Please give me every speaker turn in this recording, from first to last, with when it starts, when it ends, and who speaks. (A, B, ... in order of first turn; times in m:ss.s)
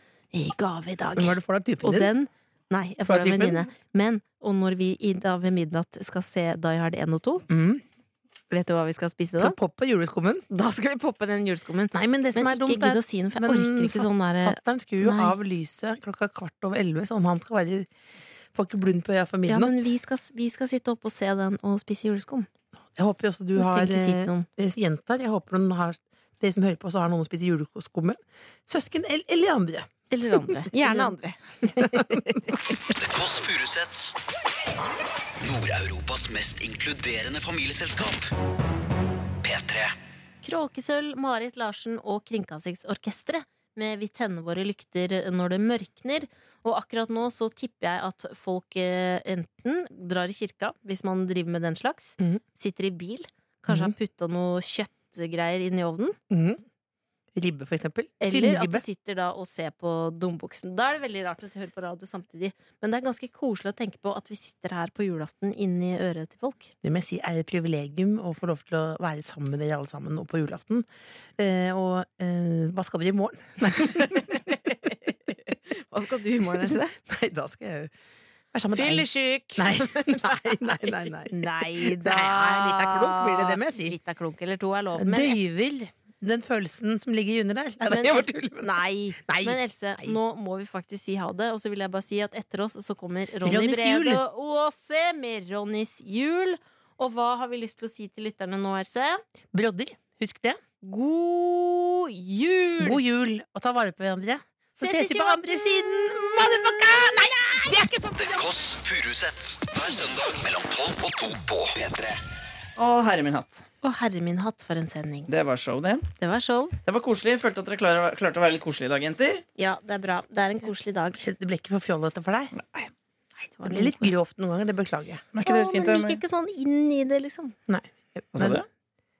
0:00.3-0:07.4 A
0:01.2-0:02.1 B
0:03.1-0:03.7 B
0:07.5-0:07.8 B
0:08.5-0:09.6 A
0:09.4-0:10.4 B
0:10.5-0:15.4 A
0:11.9-0:17.9 B
0:18.5-0:19.9 B
0:19.5-0:22.5 A
0:23.0-0:29.9 B
0:23.6-0:24.5 A
0:30.1-0:32.6 A
0:30.5-0:31.1 B
0:31.8-0:32.4 B
0:32.8-0:34.2 C
0:35.4-0:38.3 C
0:39.4-0:39.9 C
0:40.4-0:56.2 A
0:53.7-0:53.9 B
0:56.3-0:56.6 B
0:57.3-0:58.8 B
0:58.2-1:06.7 A
1:06.8-1:14.6 B
1:13.8-1:14.8 A
1:15.5-1:16.9 A
1:16.6-1:17.9 B
1:18.5-1:24.0 B
1:18.7-1:25.4 A
1:25.0-1:30.2 B
1:27.9-1:39.2 A
1:33.4-1:34.2 B
1:39.5-1:40.6 B
1:40.8-1:43.0 A
1:42.8-1:48.5 B
1:44.8-1:47.2 A
1:48.2-1:52.2 C
1:52.8-1:53.6 D
1:53.8-1:55.3 A
1:55.3-1:56.1 D
1:56.2-1:56.8 A
1:56.8-1:59.4 D
1:59.6-2:01.2 A
2:01.2-2:02.5 B
2:02.5-2:02.9 D
2:03.5-2:04.0 A
2:03.6-2:05.2 B
2:05.3-2:06.2 D
2:05.4-2:07.6 A
2:07.7-2:08.6 B
2:08.3-2:08.6 D